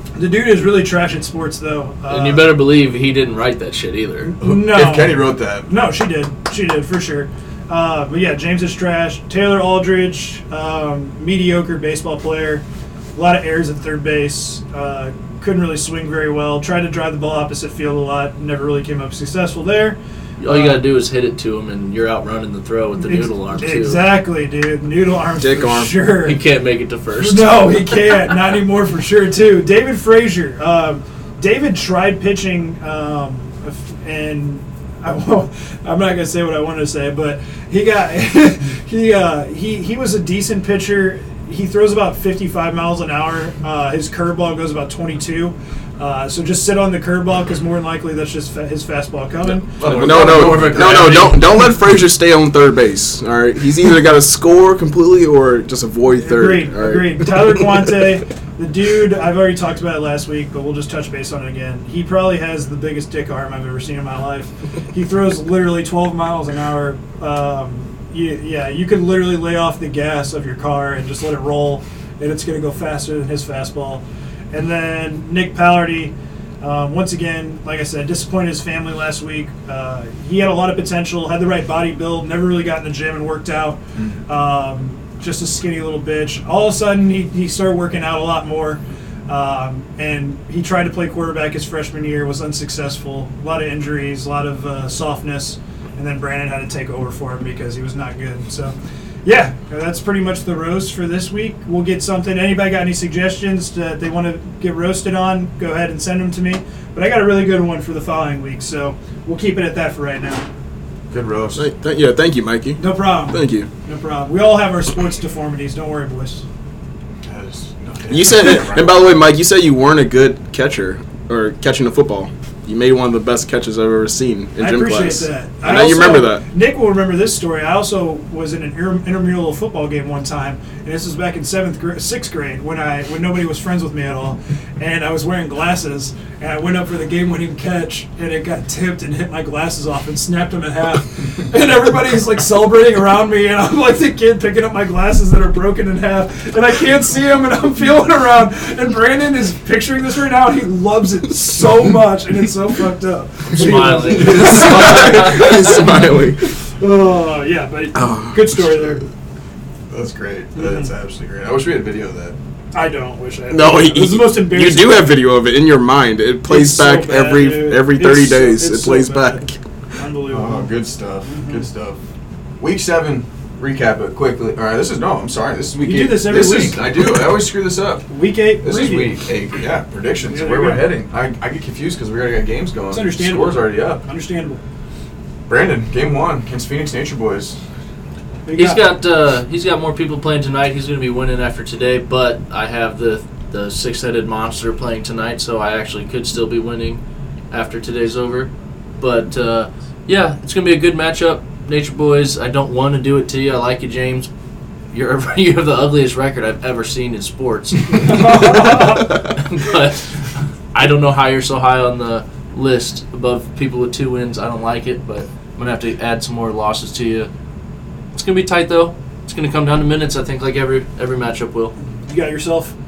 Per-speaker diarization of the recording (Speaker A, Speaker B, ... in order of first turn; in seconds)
Speaker A: 0.1-2.6, 4.2-20.8, 23.0-26.4, 27.1-49.8, 56.1-110.4, 112.8-116.4, 124.6-155.6, 156.8-159.1, 160.6-160.9, 162.7-165.1, 166.5-171.6, 175.8-176.9, 178.1-179.2, 180.3-180.9, 182.9-184.6, 188.4-188.8, 207.9-209.2, 222.1-222.7
Speaker B: 2.1-4.3, 20.4-24.2, 26.2-28.0, 49.9-51.4, 153.5-155.5, 188.5-204.3, 204.9-210.1, 210.7-217.3, 218.1-221.7
Speaker C: 4.4-5.7, 49.4-51.4, 111.1-111.7, 117.2-119.3, 159.9-162.4, 170.3-172.0, 172.6-184.0, 185.5-187.6
Speaker D: 25.4-25.9, 49.8-57.9, 111.5-113.7, 118.1-126.4, 154.1-156.6, 157.9-158.8, 163.5-169.6